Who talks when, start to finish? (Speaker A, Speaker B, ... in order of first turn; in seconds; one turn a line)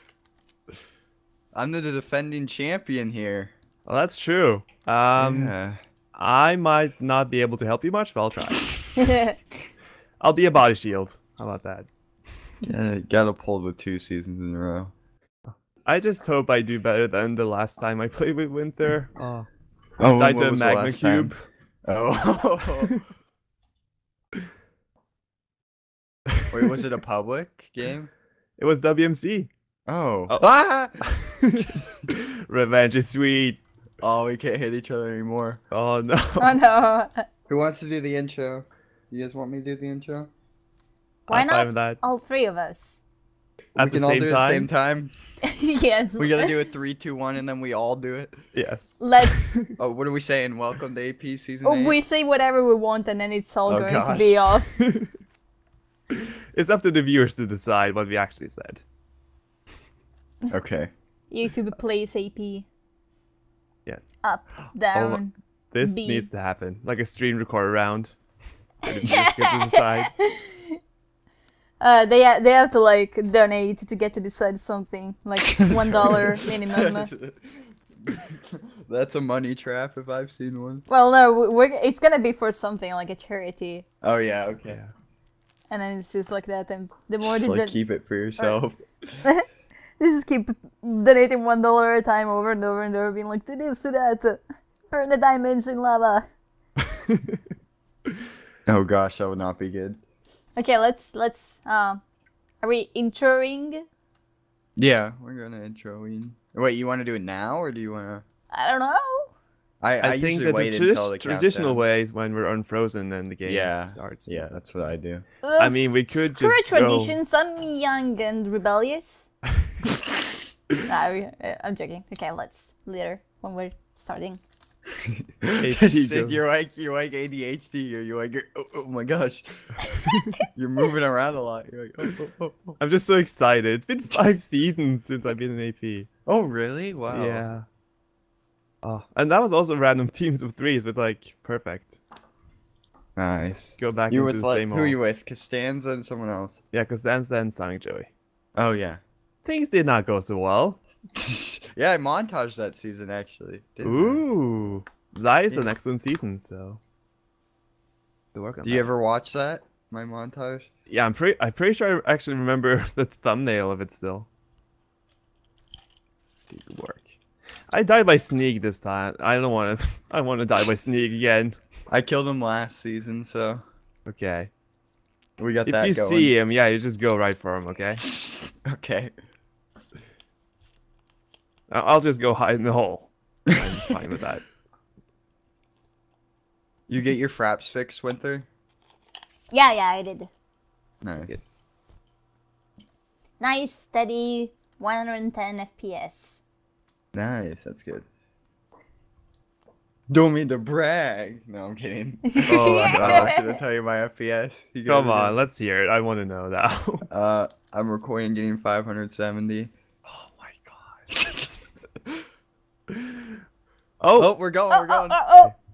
Speaker A: 1.5-3.5
Speaker B: 3.9-5.5
Speaker A: 5.2-5.8
Speaker B: 6.1-8.9
Speaker C: 8.9-9.3
Speaker B: 10.2-11.9
Speaker A: 12.6-14.9
Speaker B: 15.5-19.5
Speaker A: 20.0-21.3
Speaker B: 20.1-21.4
Speaker A: 21.8-22.9
Speaker A: 26.5-28.1
Speaker B: 28.6-29.5
Speaker A: 29.9-31.9
Speaker B: 31.1-33.6
Speaker A: 34.0-35.6
Speaker B: 35.7-36.5
Speaker C: 36.4-37.2
Speaker A: 37.5-40.3
Speaker B: 41.3-42.0
Speaker C: 41.3-43.0
Speaker B: 43.7-44.7
Speaker A: 43.8-45.1
Speaker C: 45.4-46.6
Speaker A: 46.2-48.4
Speaker B: 48.5-49.7
Speaker C: 49.0-49.5
Speaker A: 49.8-52.0
Speaker C: 51.6-54.7
Speaker A: 53.7-54.5
Speaker B: 54.8-55.1
Speaker B: 56.1-58.8
Speaker A: 60.5-60.9
Speaker C: 61.3-62.7
Speaker B: 63.9-64.2
Speaker C: 64.2-66.3
Speaker B: 64.9-68.2
Speaker B: 68.8-70.1
Speaker C: 68.9-70.8
Speaker C: 71.8-77.1
Speaker A: 75.4-80.8
Speaker C: 80.9-83.8
Speaker A: 84.0-84.8
Speaker C: 85.7-87.8
Speaker A: 87.2-89.2
Speaker C: 90.0-96.2
Speaker B: 96.9-97.4
Speaker A: 98.7-100.0
Speaker C: 100.5-102.0
Speaker C: 102.6-103.8
Speaker A: 104.8-108.2
Speaker C: 108.5-109.3
Speaker A: 109.8-111.8
Speaker B: 110.0-114.6
Speaker A: 113.4-115.2
Speaker C: 115.4-119.3
Speaker B: 115.6-117.2
Speaker C: 120.8-124.4
Speaker A: 125.0-129.7
Speaker B: 125.6-126.4
Speaker C: 129.8-130.4
Speaker A: 130.5-132.8
Speaker B: 132.8-136.1
Speaker A: 136.2-137.4
Speaker B: 137.1-137.7
Speaker B: 138.8-142.0
Speaker A: 143.2-146.6
Speaker B: 143.4-145.0
Speaker B: 146.7-148.1
Speaker A: 148.6-149.0
Speaker B: 149.4-150.8
Speaker A: 151.1-154.3
Speaker B: 153.8-156.8
Speaker B: 158.3-158.9
Speaker A: 158.6-160.7
Speaker B: 160.9-164.3
Speaker B: 166.5-167.1
Speaker B: 167.7-171.6
Speaker A: 171.9-173.6
Speaker B: 174.1-174.5
Speaker A: 175.4-176.3
Speaker B: 175.7-178.1
Speaker A: 178.1-179.1
Speaker B: 181.7-184.4
Speaker A: 183.5-184.0
Speaker A: 186.9-188.5
Speaker C: 189.5-190.3
Speaker A: 191.0-191.5
Speaker C: 193.4-196.4
Speaker A: 197.1-198.1
Speaker A: 200.1-205.3
Speaker C: 202.2-203.6
Speaker B: 202.7-203.3
Speaker B: 204.8-207.1
Speaker A: 207.1-209.7
Speaker B: 210.1-211.0
Speaker A: 211.1-211.5
Speaker B: 214.0-214.3
Speaker A: 214.2-215.2
Speaker C: 214.7-215.5